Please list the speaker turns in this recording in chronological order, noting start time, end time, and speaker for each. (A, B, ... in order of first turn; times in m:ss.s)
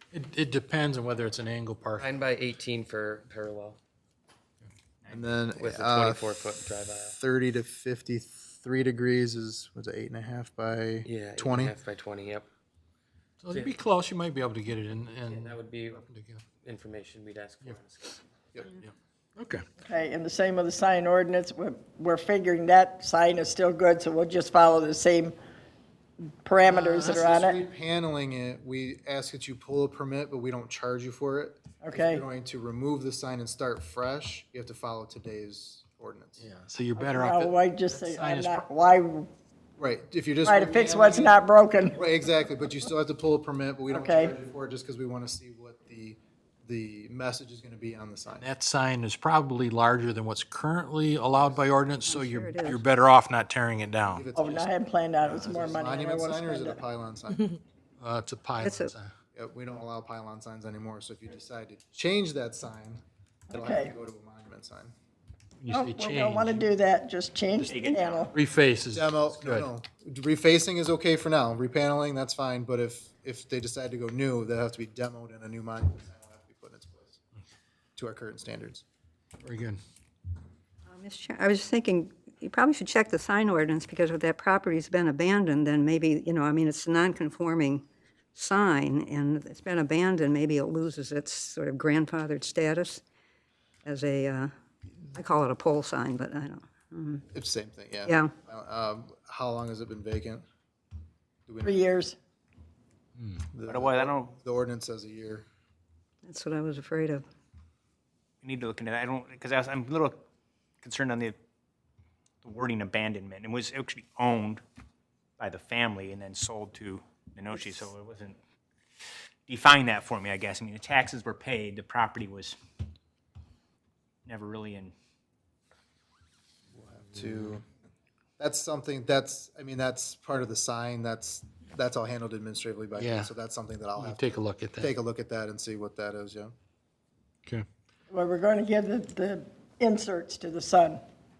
0:00.1-0:02.1 A
0:02.0-0:03.8 B
0:05.0-0:05.4 C
0:05.1-0:06.5 D
0:05.6-0:07.2 B
0:07.0-0:11.8 D
0:11.0-0:12.5 B
0:13.4-0:16.4 A
0:13.5-0:13.8 B
0:15.2-0:16.0 B
0:16.6-0:18.2 B
0:18.8-0:19.6 A
0:19.8-0:25.4 E
0:26.4-0:27.6 E
0:26.7-0:36.4 D
0:31.8-0:32.2 E
0:36.4-0:38.6 A
0:37.0-0:39.3 E
0:39.8-0:41.4 D
0:40.4-0:42.0 E
0:41.9-0:48.5 D
0:43.9-0:44.3 E
0:48.3-0:54.3 A
0:52.1-0:52.8 F
0:54.1-0:57.6 D
0:54.4-0:56.8 E
0:58.0-0:59.1 A
0:58.6-0:58.9 F
0:59.4-1:04.9 D
1:03.5-1:03.9 E
1:05.6-1:06.7 A
1:05.7-1:08.3 E
1:07.6-1:08.3 C
1:08.3-1:09.7 A
1:08.9-1:17.2 D
1:18.0-1:18.8 D
1:19.4-1:19.8 A
1:20.9-1:33.0 F
1:33.8-1:34.5 F
1:35.1-1:37.2 F
1:37.3-1:40.4 D
1:38.0-1:38.3 F
1:41.5-1:41.8 D
1:41.6-1:42.2 E
1:43.2-1:43.5 A
1:43.5-1:45.4 D
1:43.7-1:44.3 C
1:46.2-1:47.2 F
1:48.4-1:50.2 C
1:50.8-1:51.4 C
1:52.4-1:54.6 C
1:55.4-1:58.4 C
1:59.5-2:02.6 C
2:04.3-2:04.9 C
2:06.8-2:07.6 D
2:08.4-2:14.2 D
2:13.0-2:13.3 A
2:14.0-2:14.9 A
2:14.8-2:16.6 D
2:18.1-2:21.0 E